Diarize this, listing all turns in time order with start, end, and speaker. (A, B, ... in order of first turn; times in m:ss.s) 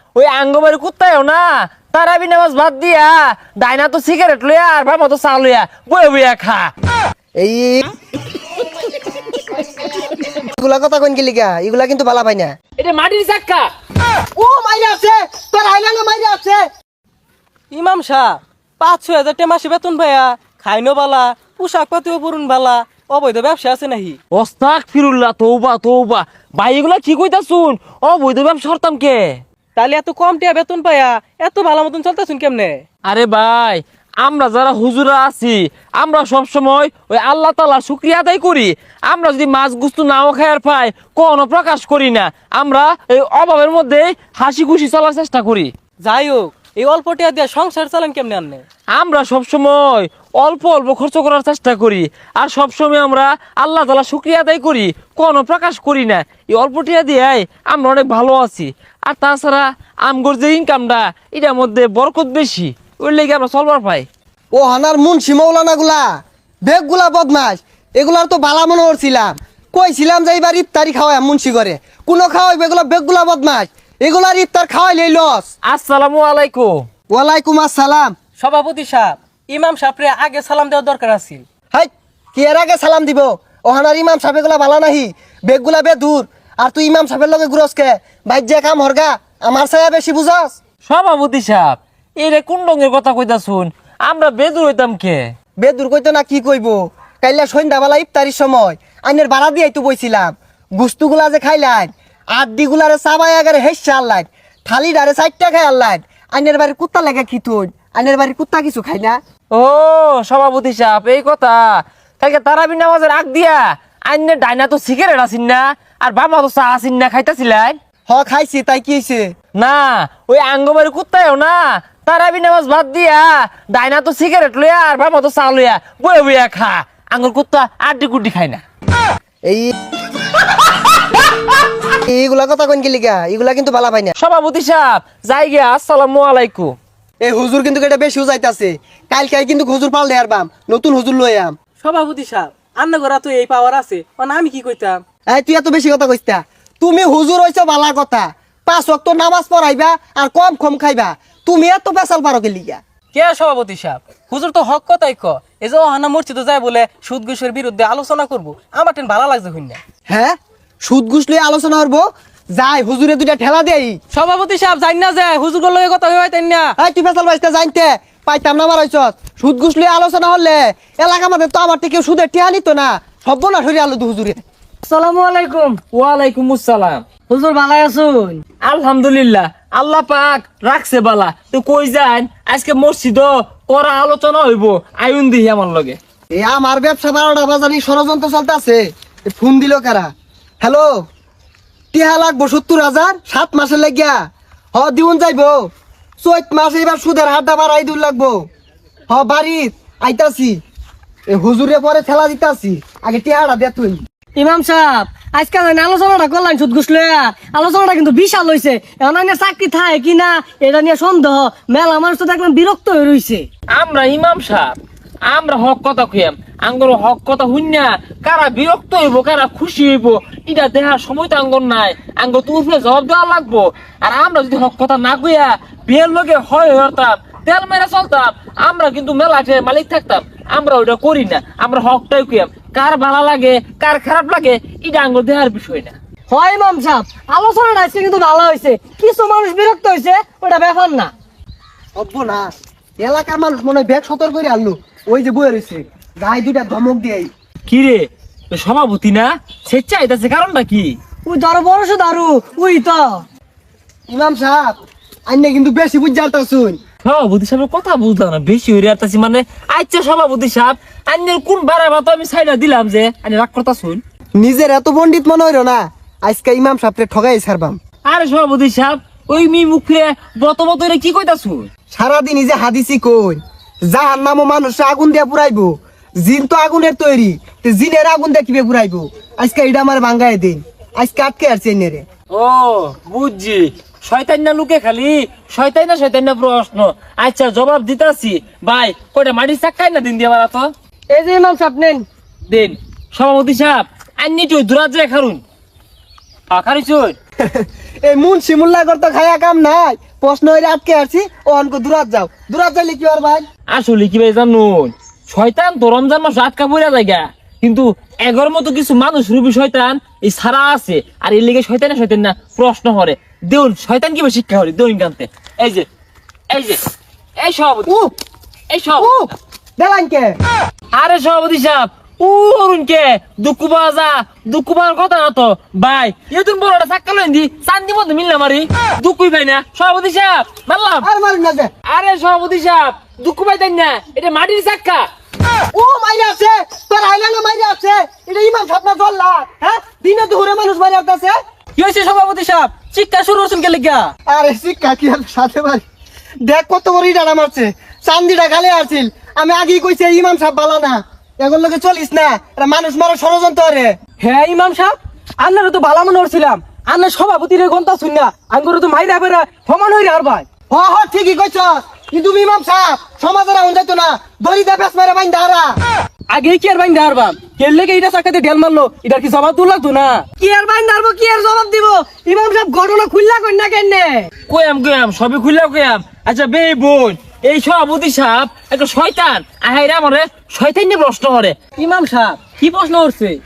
0:00.2-0:06.7 A
0:07.4-0:07.9 B
0:10.0-0:12.6 B
0:12.8-0:13.7 A
0:14.4-0:16.7 B
0:17.7-0:24.2 C
0:24.3-0:29.4 A
0:29.8-0:32.8 C
0:33.0-0:45.7 A
0:46.0-0:48.6 C
0:49.0-1:04.1 A
1:04.5-1:06.1 B
1:06.6-1:15.5 B
1:15.6-1:16.9 A
1:17.1-1:18.2 B
1:18.4-1:21.5 C
1:21.7-1:30.6 B
1:30.8-1:35.3 A
1:35.6-1:49.2 B
1:49.5-1:57.8 A
1:58.1-1:59.3 B
1:59.6-2:08.6 A
2:09.5-2:09.7 B
2:12.0-2:14.2 B
2:14.2-2:16.8 A
2:17.2-2:21.6 B
2:21.8-2:25.0 C
2:25.3-2:32.8 B
2:33.1-2:39.8 C
2:40.1-2:44.0 B
2:44.1-2:46.8 C
2:46.8-2:54.4 B
2:54.8-2:55.8 D
2:55.9-2:57.0 A
2:57.3-2:58.4 D
2:58.6-3:06.0 A
3:06.3-3:10.1 B
3:10.6-3:11.1 B
3:11.9-3:14.2 B
3:14.8-3:15.7 B
3:16.2-3:18.4 B
3:19.1-3:20.6 B
3:21.3-3:24.0 B
3:24.4-3:33.5 D
3:33.8-3:34.8 A
3:35.3-3:55.9 A
3:56.3-4:01.1 D
4:02.0-4:07.3 B
4:07.7-4:11.0 A
4:11.3-4:13.2 D
4:14.1-4:16.8 B
4:17.0-4:24.0 A
4:24.4-4:27.8 B
4:28.1-4:31.7 A
4:31.9-4:42.0 B
4:42.3-4:50.7 A
4:51.1-4:52.1 D
4:52.5-4:55.4 A
4:56.5-4:57.2 A
4:57.4-5:03.4 B
5:03.7-5:15.9 A
5:16.5-5:16.8 A
5:17.4-5:17.9 A
5:17.9-5:18.1 B
5:18.7-5:19.1 A
5:19.0-5:20.4 B
5:21.0-5:31.1 A
5:31.0-5:31.7 B
5:31.9-5:35.1 A
5:35.7-5:41.4 B
5:41.8-5:44.1 C
5:44.3-5:45.8 B
5:46.4-5:53.9 B
5:54.2-6:00.5 C
6:00.7-6:05.8 B
6:06.3-6:10.3 C
6:10.4-6:14.3 D
6:14.5-6:21.6 A
6:21.8-6:22.4 D